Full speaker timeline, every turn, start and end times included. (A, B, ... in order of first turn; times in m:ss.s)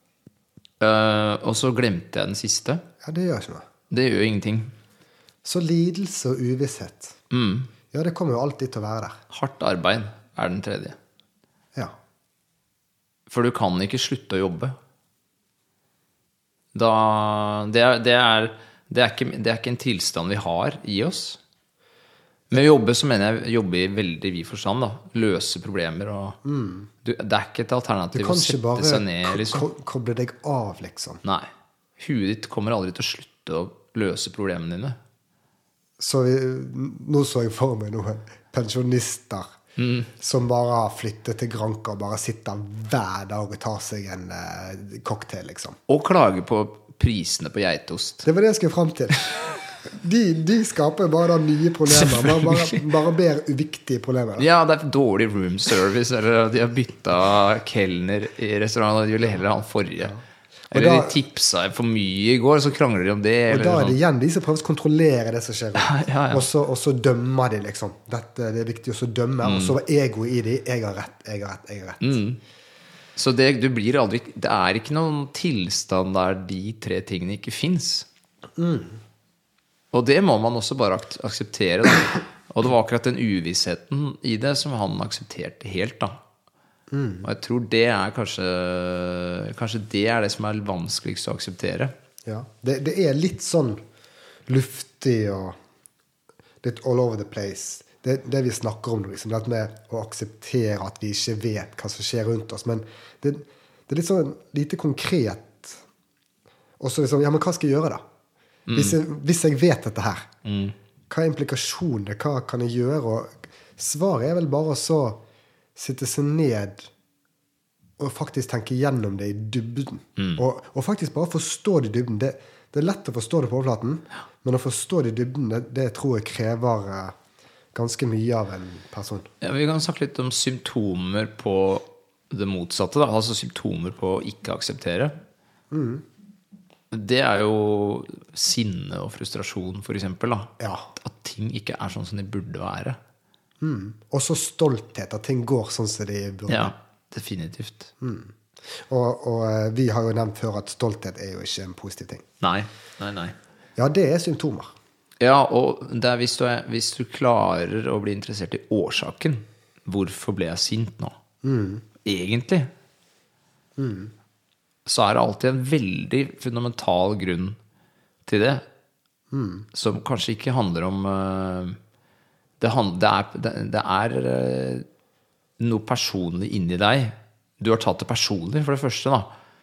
0:00.8-0:02.8 A
0:03.0-0:03.7 B
0:03.9-0:04.7 A
0:05.4-0:07.2 B
0:07.3-0:07.7 A
0:07.9-0:09.2 B
0:09.3-0:11.0 A
0:13.3-0:14.8 A
0:16.7-0:21.4 A
0:22.5-0:26.4 A
0:26.4-0:26.9 B
0:27.0-0:29.6 A
0:28.1-0:31.2 B
0:31.2-0:35.0 A
0:36.0-0:39.6 B
0:39.8-0:40.1 A
0:40.2-0:45.8 B
0:45.9-0:48.2 A
0:48.2-0:49.4 B
0:49.9-0:54.5 B
0:52.2-0:52.6 A
0:54.4-1:00.1 A
1:00.0-1:01.2 B
1:00.7-1:04.0 A
1:03.5-1:12.2 B
1:05.8-1:06.4 A
1:09.4-1:09.8 A
1:12.0-1:12.4 A
1:13.2-1:18.1 A
1:18.6-1:19.0 B
1:19.9-1:26.2 A
1:26.9-1:27.3 B
1:27.2-1:31.9 A
1:32.3-1:33.8 B
1:34.5-1:35.6 B
1:36.6-1:45.8 B
1:46.8-1:48.0 B
1:48.7-1:49.0 A
1:48.8-1:50.3 B
1:50.4-1:50.8 A
1:51.1-1:55.2 B
1:55.8-1:56.9 B
1:58.0-2:07.2 B
2:07.8-2:09.3 B
2:09.4-2:15.2 A
2:15.7-2:16.0 B
2:16.9-2:23.0 A
2:20.6-2:20.9 B
2:23.6-2:26.7 B
2:26.5-2:27.9 A
2:28.0-2:32.2 B
2:32.4-2:33.4 A
2:33.8-2:34.7 B
2:35.2-2:41.2 A
2:41.4-2:41.8 B
2:42.0-2:42.7 A
2:43.8-2:44.1 B
2:44.9-2:47.6 A
2:48.3-2:48.6 A
2:49.3-2:49.7 B
2:49.7-2:51.8 A
2:52.6-2:54.9 A
2:55.6-2:59.3 A